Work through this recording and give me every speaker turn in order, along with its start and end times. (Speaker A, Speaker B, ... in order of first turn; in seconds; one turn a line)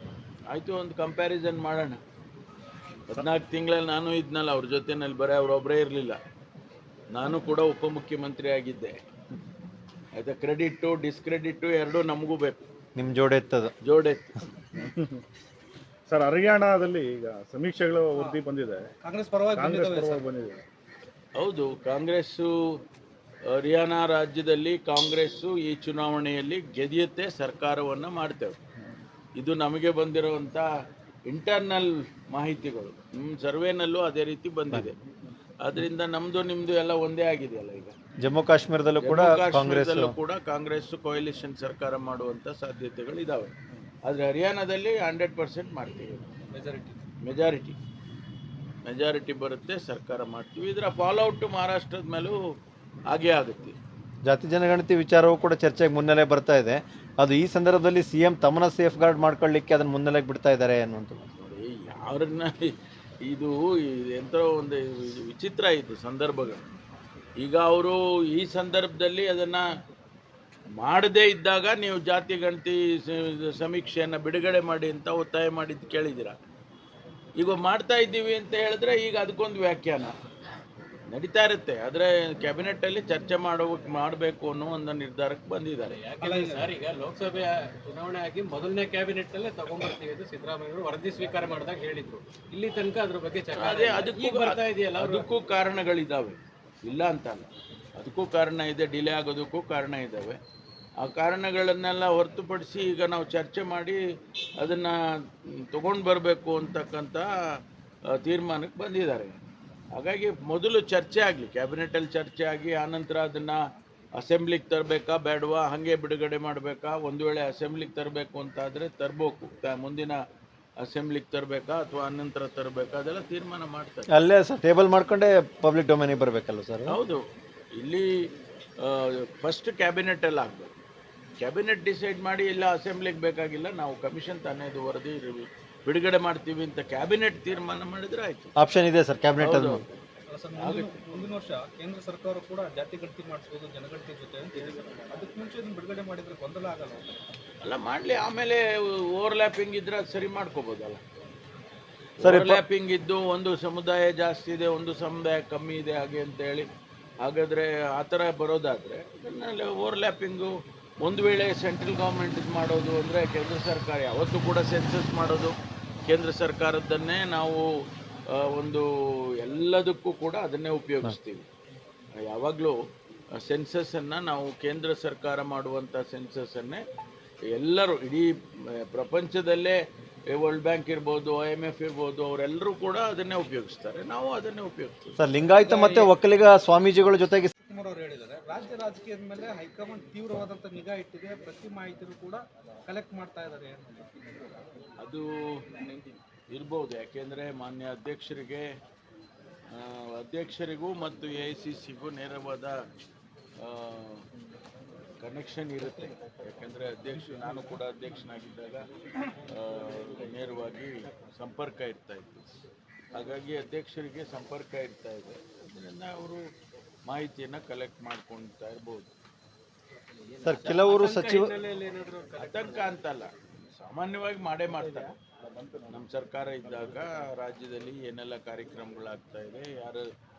Speaker A: 0.5-2.0
Speaker A: 3.1-6.2
Speaker A: 7.1-8.9
Speaker A: 10.2-12.6
Speaker B: 12.9-13.7
Speaker A: 13.8-14.4
Speaker C: 14.7-15.2
Speaker C: 16.1-18.9
Speaker D: 19.0-20.2
Speaker C: 19.5-20.6
Speaker A: 21.4-22.5
Speaker A: 23.5-28.6
Speaker A: 29.4-30.7
Speaker A: 31.3-34.9
Speaker A: 35.6-37.9
Speaker B: 38.2-40.1
Speaker A: 39.0-43.5
Speaker A: 44.0-46.3
Speaker D: 46.5-47.0
Speaker A: 47.2-47.8
Speaker A: 48.8-52.4
Speaker A: 53.1-53.8
Speaker B: 54.2-61.2
Speaker A: 61.4-62.7
Speaker A: 63.3-66.7
Speaker A: 67.4-69.6
Speaker A: 70.8-76.3
Speaker A: 77.4-80.1
Speaker A: 81.1-86.0
Speaker E: 85.9-95.2
Speaker D: 86.2-86.7
Speaker A: 93.5-100.4
Speaker A: 101.0-104.0
Speaker A: 104.6-107.3
Speaker A: 108.1-109.4
Speaker A: 109.9-113.6
Speaker A: 114.2-120.2
Speaker A: 120.8-124.1
Speaker B: 124.1-127.0
Speaker A: 126.9-127.2
Speaker A: 127.8-128.1
Speaker A: 128.8-130.7
Speaker A: 131.4-138.5
Speaker B: 138.6-139.8
Speaker A: 139.4-139.9
Speaker D: 140.3-147.2
Speaker A: 140.6-141.3
Speaker A: 147.6-151.0
Speaker A: 152.2-156.7
Speaker B: 152.2-152.6
Speaker A: 157.2-165.5
Speaker A: 166.1-167.6
Speaker A: 168.3-168.8
Speaker A: 169.4-171.4
Speaker A: 172.2-172.8
Speaker A: 173.4-176.8
Speaker A: 177.5-178.3
Speaker A: 178.9-179.8
Speaker A: 180.3-185.2
Speaker B: 185.2-187.5
Speaker D: 185.4-186.1
Speaker D: 187.6-194.1
Speaker A: 195.0-196.0
Speaker A: 196.5-198.6
Speaker A: 199.7-202.8
Speaker A: 203.6-204.2
Speaker A: 205.2-208.8
Speaker A: 209.4-212.6
Speaker A: 213.1-216.4
Speaker A: 217.1-219.2
Speaker B: 220.4-221.5
Speaker E: 220.6-222.9
Speaker A: 222.4-225.1
Speaker A: 225.9-230.0